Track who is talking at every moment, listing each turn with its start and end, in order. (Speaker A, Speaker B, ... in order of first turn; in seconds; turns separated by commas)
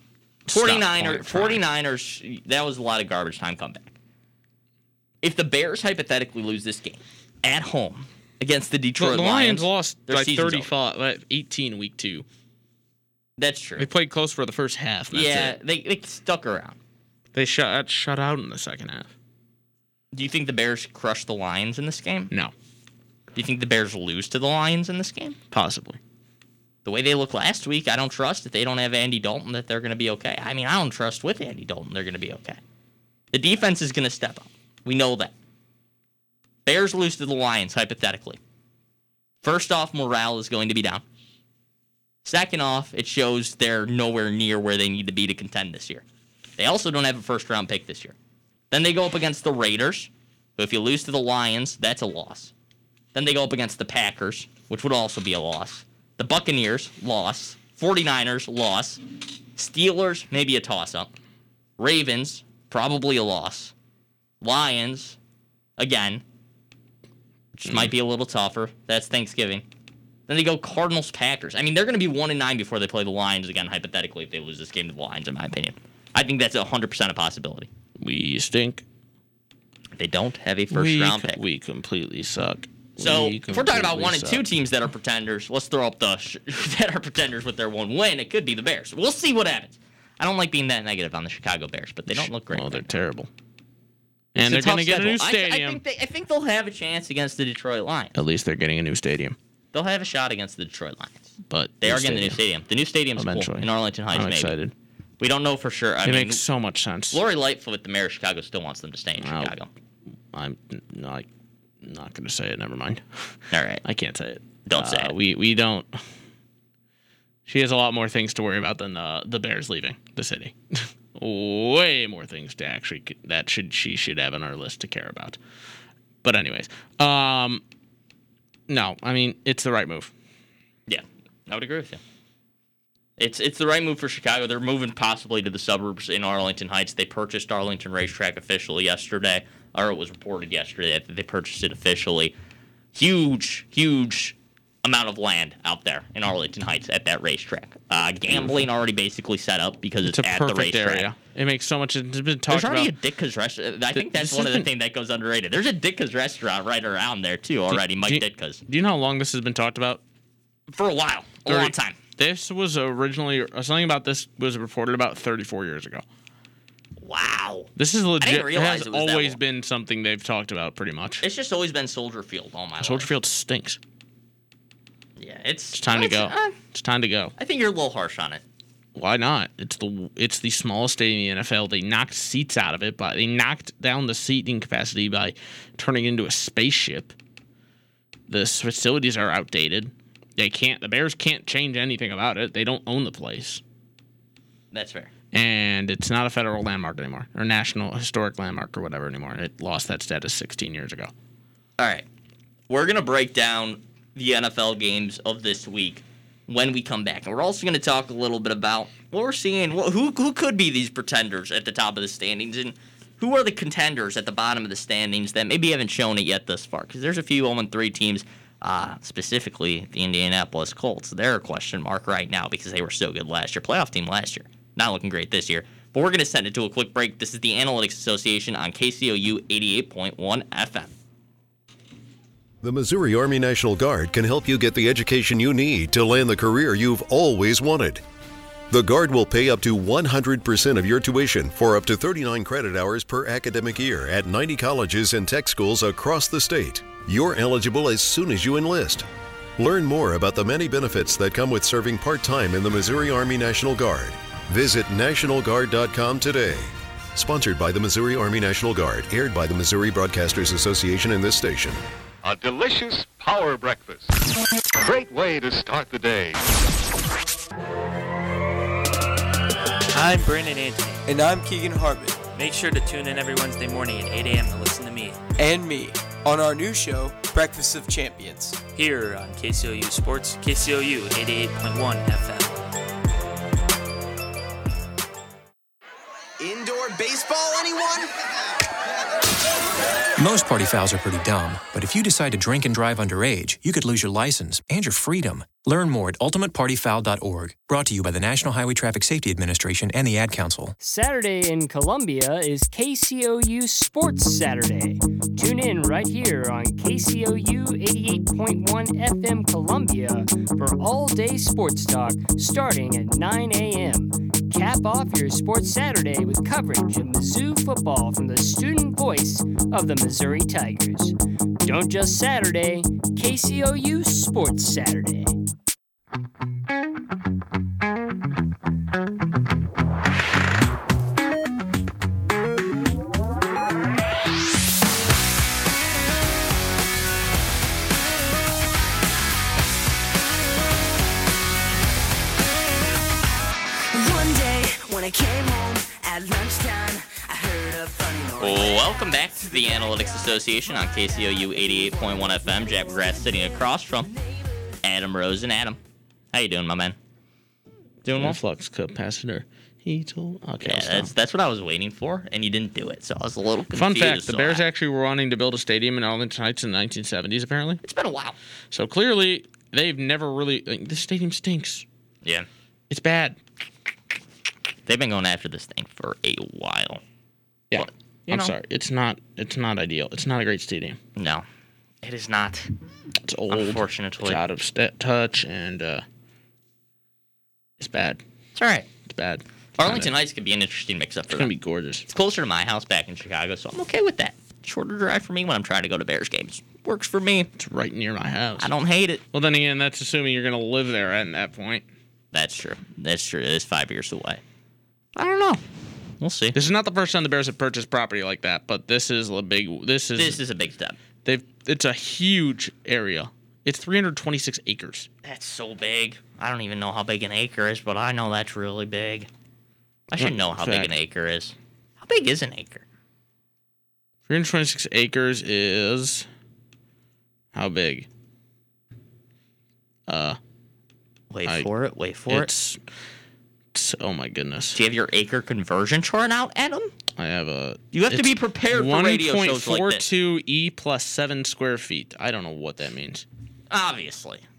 Speaker A: 0.5-1.6, Speaker B: 0.5-3.9, Speaker B: 5.2-10.7, Speaker A: 9.0-12.2, Speaker B: 13.4-13.9, Speaker A: 13.8-15.6, Speaker B: 15.1-16.8, Speaker A: 17.3-19.1, Speaker B: 20.1-22.3, Speaker B: 23.3-25.4, Speaker A: 25.5-26.0, Speaker B: 26.8-32.6, Speaker B: 33.3-35.3, Speaker B: 36.6-38.4, Speaker B: 39.4-41.0, Speaker B: 42.2-46.0, Speaker B: 46.6-48.1, Speaker B: 48.7-52.5, Speaker B: 53.1-59.0, Speaker B: 59.5-61.1, Speaker B: 61.8-63.7, Speaker B: 64.4-65.2, Speaker B: 65.8-66.2, Speaker B: 67.5-69.6, Speaker A: 67.7-67.9, Speaker B: 70.3-77.7, Speaker A: 78.0-78.8, Speaker B: 80.0-81.4, Speaker A: 80.7-84.5, Speaker B: 83.0-93.0, Speaker A: 92.1-93.3, Speaker A: 94.3-95.8, Speaker B: 94.4-98.1, Speaker A: 98.1-99.4, Speaker B: 99.7-104.6, Speaker A: 101.5-102.4, Speaker A: 103.2-104.7, Speaker B: 105.2-106.4, Speaker A: 106.0-107.2, Speaker B: 107.1-109.7, Speaker A: 109.2-109.5, Speaker A: 110.3-111.3, Speaker A: 111.8-116.0, Speaker B: 113.5-113.8, Speaker B: 114.7-115.1, Speaker A: 117.5-125.4, Speaker A: 126.2-127.6, Speaker A: 128.7-130.1, Speaker B: 130.9-132.0, Speaker B: 133.2-142.3, Speaker B: 142.9-151.1, Speaker A: 148.3-148.7, Speaker A: 150.0-152.9, Speaker B: 152.5-158.6, Speaker A: 153.9-154.7, Speaker A: 157.7-160.0, Speaker B: 160.7-162.0, Speaker A: 161.4-166.0, Speaker B: 167.0-169.4, Speaker A: 167.8-171.2, Speaker B: 171.2-173.1, Speaker A: 172.8-173.8, Speaker B: 175.2-176.6, Speaker A: 175.7-177.3, Speaker B: 177.4-178.4, Speaker A: 178.9-187.1, Speaker A: 188.3-193.6, Speaker B: 194.7-195.1, Speaker A: 195.3-201.1, Speaker B: 201.8-202.0, Speaker B: 202.7-230.9, Speaker C: 232.6-238.0, Speaker C: 238.7-249.1, Speaker C: 249.6-261.8, Speaker D: 262.2-264.1, Speaker D: 264.8-266.4, Speaker E: 269.9-271.0, Speaker F: 271.1-272.2, Speaker E: 272.3-275.2, Speaker F: 275.4-278.6, Speaker E: 278.7-282.6, Speaker G: 290.2-300.7, Speaker H: 300.8-325.4, Speaker I: 343.9-350.3, Speaker B: 348.4-354.1, Speaker B: 354.8-355.8, Speaker B: 356.3-356.9, Speaker B: 358.0-358.4, Speaker A: 358.1-361.1, Speaker B: 360.6-364.6, Speaker A: 363.7-367.8, Speaker B: 367.8-368.4, Speaker A: 368.7-371.8, Speaker A: 372.9-373.4, Speaker B: 374.9-377.0, Speaker A: 377.7-381.0, Speaker B: 377.7-378.5, Speaker B: 381.1-381.4, Speaker B: 382.0-382.7, Speaker A: 383.2-386.0, Speaker B: 383.5-384.4, Speaker A: 387.8-388.2, Speaker B: 388.6-388.9, Speaker A: 389.1-390.1, Speaker B: 389.8-391.5, Speaker A: 391.3-392.1, Speaker B: 392.1-397.5, Speaker A: 397.6-398.7, Speaker B: 398.6-399.2, Speaker A: 399.3-401.8, Speaker B: 402.3-404.4, Speaker B: 405.1-405.6, Speaker B: 406.2-406.6, Speaker A: 406.5-410.4, Speaker B: 410.1-411.0, Speaker A: 411.2-415.1, Speaker B: 415.2-419.3, Speaker B: 420.1-422.8, Speaker A: 420.2-421.0, Speaker A: 424.3-426.3, Speaker A: 427.5-428.1, Speaker A: 430.1-430.4, Speaker B: 431.3-432.5, Speaker A: 432.3-432.8, Speaker A: 433.7-434.8, Speaker B: 434.7-436.9, Speaker A: 437.1-443.2, Speaker B: 437.9-440.1, Speaker B: 443.7-444.4